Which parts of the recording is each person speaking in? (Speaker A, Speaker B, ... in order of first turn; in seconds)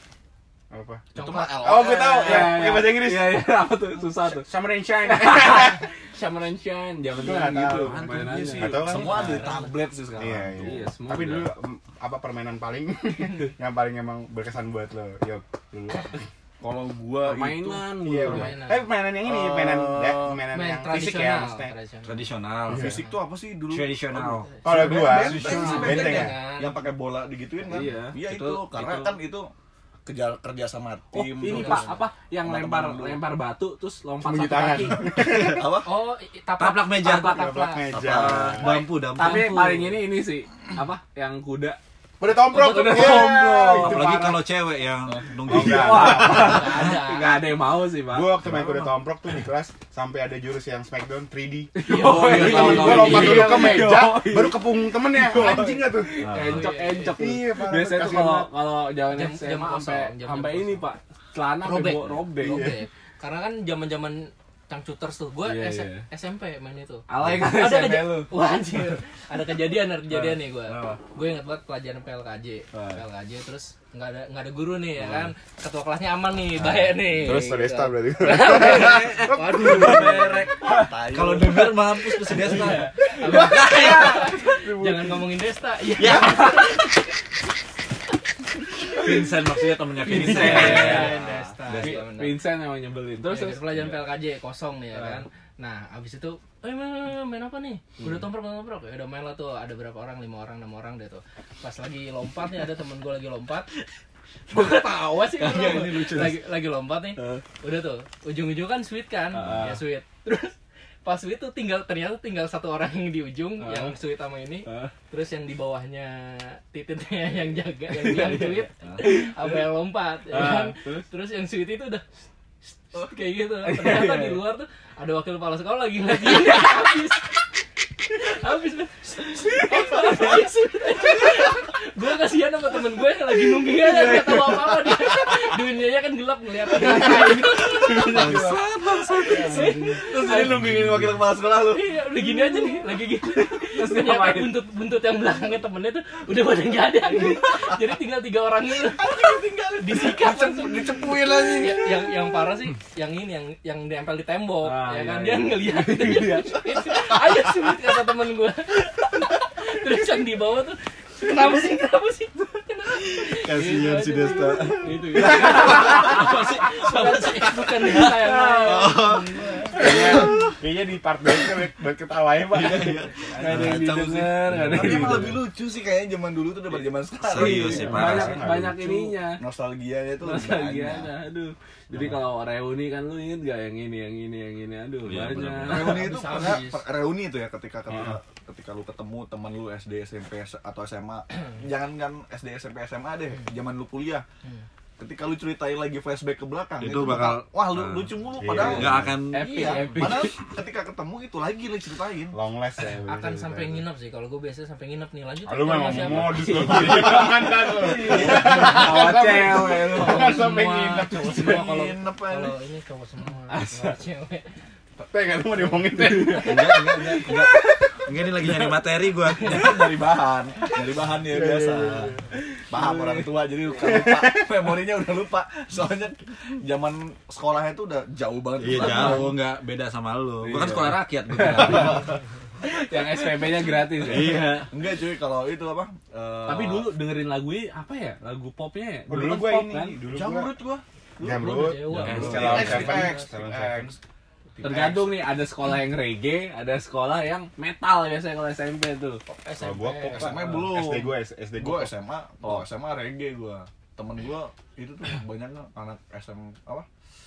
Speaker A: 0.7-3.4, 4.2-5.8, 7.2-8.0, 8.5-9.4, 10.2-16.2, 18.0-21.7, 22.7-23.0, 24.6-26.4, 34.2-35.7, 37.1-38.8, 42.2-44.4, 45.5-46.7, 48.1-51.7, 52.3-56.3, 57.1-58.5, 62.4-62.8, 77.1-79.3, 84.7-85.0, 139.3-140.0, 169.7-173.2, 177.7-178.8, 198.4-199.2, 202.3-203.8, 205.4-211.5, 215.0-217.2, 221.3-222.2, 223.8-224.5, 239.1-240.5, 241.2-243.9, 249.6-251.9
Speaker B: 1.1-1.7, 9.2-9.7, 18.2-18.9, 20.5-22.3, 25.4-26.8, 31.4-31.9, 35.8-37.9, 39.1-39.8, 42.5-43.4, 46.1-47.5, 51.8-53.8, 56.4-57.2, 59.0-60.9, 61.6-80.5, 82.2-86.9, 89.9-92.4, 93.3-103.7, 104.5-122.0, 122.8-127.4, 128.1-138.5, 139.4-140.6, 141.7-169.9, 185.9-186.8, 203.0-207.0, 209.9-214.5, 241.3-243.3, 249.3-250.4
Speaker C: 1.1-2.7, 8.7-10.7, 16.6-17.9, 19.2-20.4, 22.7-29.5, 30.1-33.2, 35.2-35.9, 37.9-38.9, 45.0-45.5, 79.7-81.9, 105.4-106.3, 133.9-134.4, 137.0-138.5, 139.2-141.8, 148.9-152.3, 172.6-181.1, 185.7-194.2, 195.0-202.4, 208.1-208.4, 211.3-212.5, 219.3-222.2, 222.7-229.4, 231.5-232.0, 234.7-236.9, 240.1-244.0, 244.6-245.2, 250.1-256.9
Speaker D: 2.2-4.5, 5.0-9.7, 10.5-11.5, 17.2-18.6, 27.7-28.2, 31.1-35.1, 39.1-41.8, 42.4-44.3, 45.5-48.5, 51.7-62.7, 65.4-66.0, 67.1-68.3, 72.7-73.0, 75.0-75.3, 80.6-80.9, 83.3-84.8, 86.1-86.4, 90.0-91.1, 91.8-93.7, 94.9-95.2, 107.2-107.4, 109.3-109.8, 113.6-114.0, 114.6-114.9, 117.9-119.7, 120.3-121.1, 123.6-124.4, 143.7-144.6, 154.6-156.6, 164.8-166.4, 168.3-168.8, 173.3-175.4, 177.3-179.4, 180.2-186.1, 199.3-200.3, 206.0-210.4, 213.5-214.0, 216.0-216.4, 222.7-223.3, 230.4-232.0, 232.6-234.6, 236.4-240.0, 244.6-249.2
Speaker E: 7.8-9.2, 22.0-23.0, 23.7-26.1, 28.2-29.1, 35.3-35.6, 36.6-39.8, 43.8-47.2, 52.0-53.7, 56.2-56.7, 78.7-84.1, 86.0-86.7, 88.9-92.1, 137.7-139.7, 140.3-141.2, 163.0-165.8, 167.9-169.5, 172.6-174.1, 174.8-175.2, 177.2-178.5, 185.0-186.1, 196.8-200.2, 216.3-219.9, 228.6-232.1, 234.0-234.7, 242.0-243.0